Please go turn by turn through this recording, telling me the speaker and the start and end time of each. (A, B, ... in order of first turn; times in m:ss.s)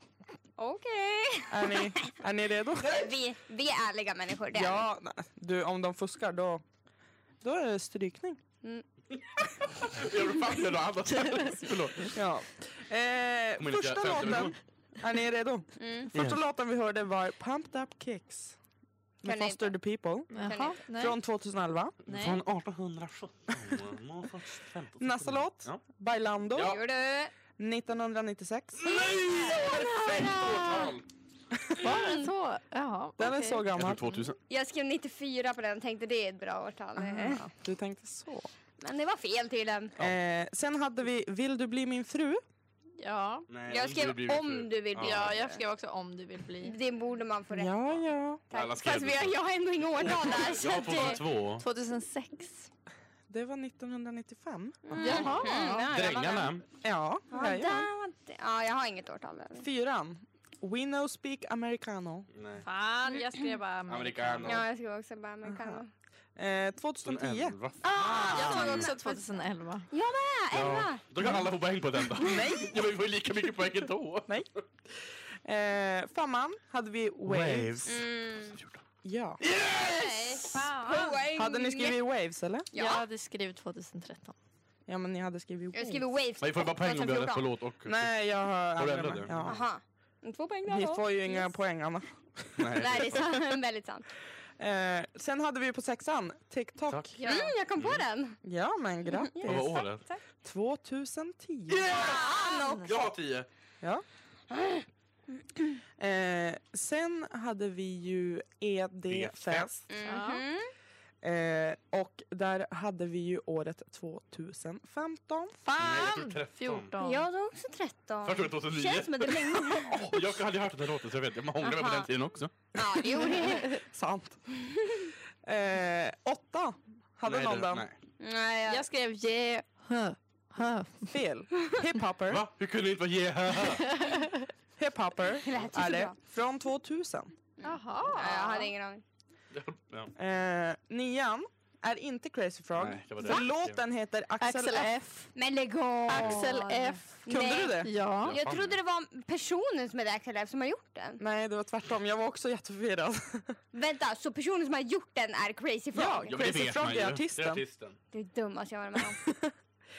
0:00.6-0:01.9 A
0:01.5-0:03.0 B
0:02.8-0:04.8 A
0:04.5-0:06.6 B
0:07.4-0:08.4 B
0:09.8-0:12.2 C
0:12.1-0:18.6 B
0:13.6-0:14.6 C
0:15.8-0:16.1 A
0:16.1-0:16.4 C
0:19.2-0:20.3 B
0:19.2-0:19.7 A
0:20.3-0:21.2 D
0:20.4-0:20.8 A
0:20.9-0:22.0 B
0:22.0-0:22.4 D
0:22.0-0:25.8 C
0:25.0-0:26.8 B
0:26.5-0:26.8 C
0:26.6-0:27.3 A
0:27.6-0:28.8 B
0:28.8-0:31.0 C
0:28.9-0:30.9 A
0:31.5-0:31.9 B
0:31.8-0:33.6 D
0:31.9-0:32.3 A
0:33.2-0:34.2 B
0:33.7-0:34.4 C
0:34.5-0:37.4 A
0:37.0-0:38.5 B
0:38.8-0:39.9 A
0:40.0-0:42.4 B
0:43.0-0:43.4 D
0:43.5-0:45.3 C
0:43.7-0:45.6 A
0:45.0-0:46.8 D
0:46.6-0:47.8 A
0:47.5-0:48.4 B
0:48.5-0:51.2 A
0:48.5-0:51.6 C
0:51.6-0:52.7 D
0:53.3-0:55.2 B
0:54.9-0:56.5 A
0:55.0-0:55.8 D
0:55.0-0:56.6 C
0:56.8-0:57.9 B
0:57.3-0:59.6 A
0:59.6-1:02.3 B
1:02.3-1:02.6 C
1:02.6-1:04.5 D
1:03.9-1:04.6 C
1:04.4-1:05.9 A
1:05.4-1:05.8 B
1:06.4-1:08.7 B
1:07.0-1:08.9 C
1:07.8-1:09.2 A
1:07.9-1:09.9 D
1:09.9-1:11.0 A
1:10.5-1:14.6 C
1:12.2-1:12.8 B
1:14.3-1:17.9 B
1:17.2-1:18.8 C
1:17.8-1:18.6 A
1:19.0-1:19.4 B
1:19.4-1:20.5 C
1:19.8-1:22.0 A
1:19.9-1:21.2 D
1:21.3-1:22.7 B
1:22.7-1:23.0 A
1:22.7-1:24.4 D
1:24.9-1:26.1 B
1:25.7-1:27.4 A
1:26.4-1:28.1 C
1:27.8-1:29.6 B
1:28.7-1:29.5 C
1:29.4-1:31.4 A
1:30.7-1:32.8 B
1:32.6-1:33.3 C
1:32.7-1:34.0 A
1:34.6-1:37.2 B
1:36.9-1:37.1 C
1:37.2-1:37.5 D
1:37.2-1:38.4 A
1:37.8-1:38.0 C
1:38.4-1:39.8 B
1:39.2-1:40.2 A
1:39.4-1:40.0 C
1:40.4-1:41.9 B
1:41.7-1:43.5 C
1:41.9-1:43.1 A
1:42.0-1:42.9 D
1:44.5-1:44.8 A
1:46.0-1:49.8 B
1:49.1-1:49.8 C
1:49.9-1:50.7 A
1:50.0-1:50.4 D
1:51.2-1:55.6 B
1:55.6-1:57.2 D
1:55.8-1:56.9 C
1:57.0-2:00.2 A
1:58.2-2:02.5 C
1:59.8-2:00.2 B
2:01.6-2:02.1 A
2:02.7-2:03.8 A
2:03.6-2:04.4 B
2:05.4-2:07.8 B
2:07.2-2:08.0 C
2:08.2-2:08.8 A
2:08.7-2:11.1 D
2:11.1-2:12.4 B
2:12.3-2:14.0 C
2:13.9-2:14.4 D
2:14.8-2:17.3 B
2:15.4-2:16.1 A
2:17.6-2:19.0 A
2:17.6-2:18.7 D
2:19.5-2:20.1 C
2:20.2-2:24.9 B
2:22.8-2:23.8 C
2:24.4-2:25.3 D
2:25.3-2:31.2 A
2:26.1-2:27.3 D
2:26.1-2:26.4 C
2:27.2-2:27.9 B
2:27.8-2:28.4 D
2:28.2-2:28.8 C
2:31.2-2:33.6 B
2:33.7-2:36.4 A
2:35.9-2:37.6 B
2:36.3-2:38.0 C
2:38.1-2:39.2 A
2:39.2-2:39.5 B